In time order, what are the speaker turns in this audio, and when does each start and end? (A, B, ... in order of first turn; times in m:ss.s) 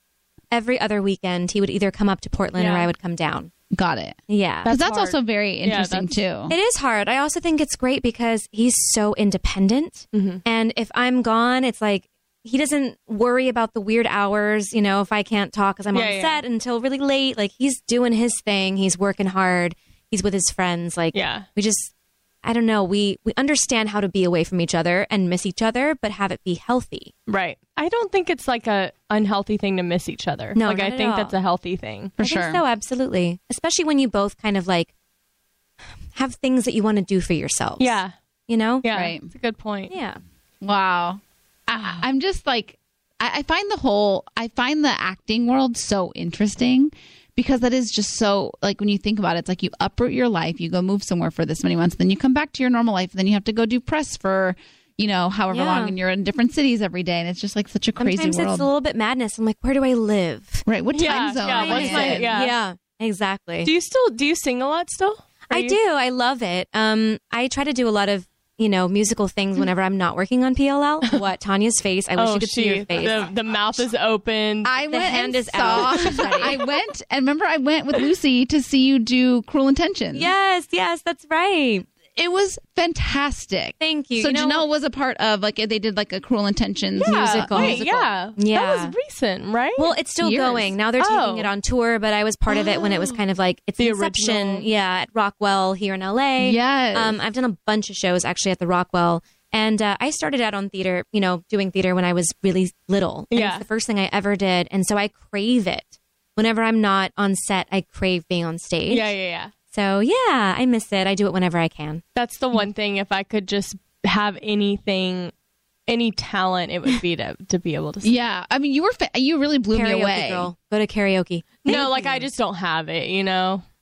0:00.5-0:03.5 A
0:02.6-0:02.9 B
0:03.7-0:06.6 C
0:04.3-0:04.7 A
0:04.6-0:06.2 B
0:06.5-0:21.9 A
0:10.1-0:10.4 B
0:15.9-0:16.4 B
0:21.1-0:21.5 B
0:22.4-0:27.1 A
0:27.3-0:32.2 B
0:30.6-0:31.4 A
0:32.2-0:32.6 C
0:32.2-0:34.9 A
0:36.1-0:38.9 A
0:37.8-0:38.1 B
0:38.8-0:39.9 B
0:38.9-0:39.2 C
0:39.9-0:40.2 A
0:40.6-0:58.7 C
0:41.7-0:42.0 B
0:55.5-0:56.0 A
0:58.0-1:00.6 A
1:00.7-1:02.4 C
1:00.9-1:02.5 B
1:01.4-1:03.7 A
1:03.6-1:05.8 B
1:05.5-1:13.3 A
1:12.2-1:14.7 B
1:14.6-1:20.3 C
1:14.9-1:16.7 A
1:15.7-1:16.5 B
1:20.1-1:21.9 A
1:22.2-1:28.1 C
1:23.8-1:24.7 A
1:27.0-1:29.9 B
1:27.0-1:29.0 A
1:29.8-1:49.1 A
1:30.2-1:30.7 C
1:31.0-1:31.5 B
1:32.5-1:33.2 C
1:33.8-1:34.7 B
1:36.4-1:37.2 C
1:43.3-1:43.6 B
1:48.9-1:49.5 B
1:49.7-1:52.0 A
1:52.2-1:55.3 B
1:55.9-1:58.1 B
1:58.0-2:00.5 C
1:59.7-2:02.2 A
2:01.6-2:03.6 B